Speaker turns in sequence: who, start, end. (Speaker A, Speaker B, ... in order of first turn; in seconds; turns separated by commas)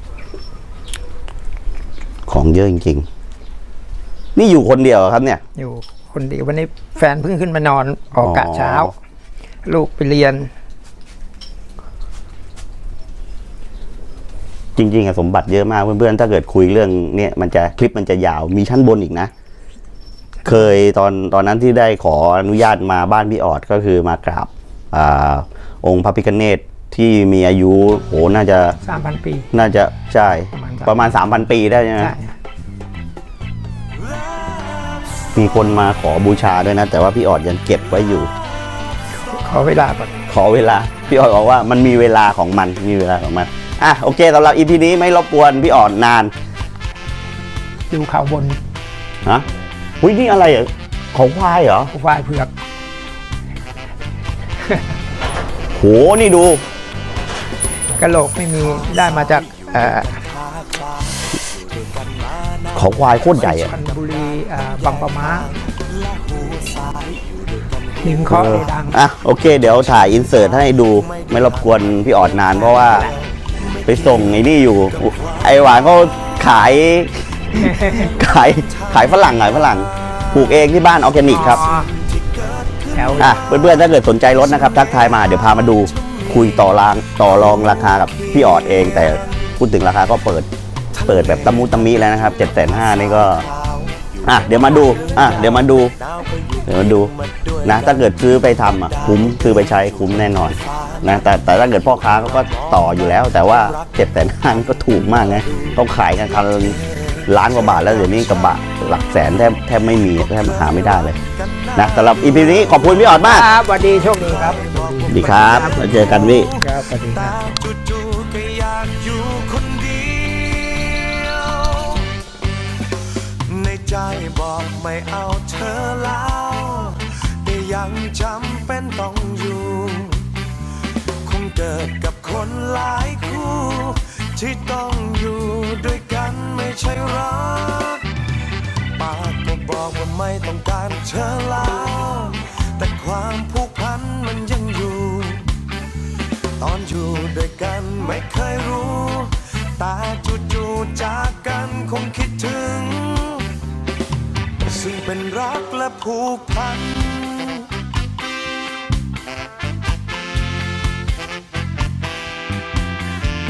Speaker A: 2.3-3.0, Speaker A: 4.3-5.4, Speaker B: 5.5-8.9, Speaker A: 8.2-8.9, Speaker B: 9.7-10.5, Speaker A: 14.8-19.3, Speaker A: 20.4-28.8, Speaker B: 28.8-29.5, Speaker A: 29.5-32.1, Speaker B: 30.5-31.0, Speaker B: 32.0-32.3, Speaker C: 34.4-35.2, Speaker A: 35.3-38.3, Speaker B: 39.3-40.1, Speaker A: 40.3-46.3, Speaker B: 47.9-48.6, Speaker A: 50.0-51.9, Speaker B: 51.9-52.5, Speaker A: 55.7-56.6, Speaker B: 58.0-60.1, Speaker C: 58.5-68.9, Speaker A: 62.8-63.7, Speaker B: 63.4-65.5, Speaker B: 68.0-69.0, Speaker A: 68.3-73.1, Speaker C: 69.5-76.7, Speaker B: 72.8-73.1, Speaker A: 73.9-81.6, Speaker C: 77.5-89.6, Speaker B: 77.6-78.1, Speaker B: 81.3-81.9, Speaker B: 82.9-83.3, Speaker A: 83.2-90.5, Speaker C: 90.9-122.1, Speaker A: 91.1-93.5, Speaker A: 94.2-95.9, Speaker A: 96.7-97.1, Speaker A: 97.6-111.2, Speaker A: 111.8-113.5, Speaker B: 113.2-117.5, Speaker A: 115.1-116.5, Speaker C: 123.5-130.3, Speaker C: 131.2-138.1, Speaker C: 138.9-145.5, Speaker C: 146.6-153.5, Speaker C: 154.6-157.7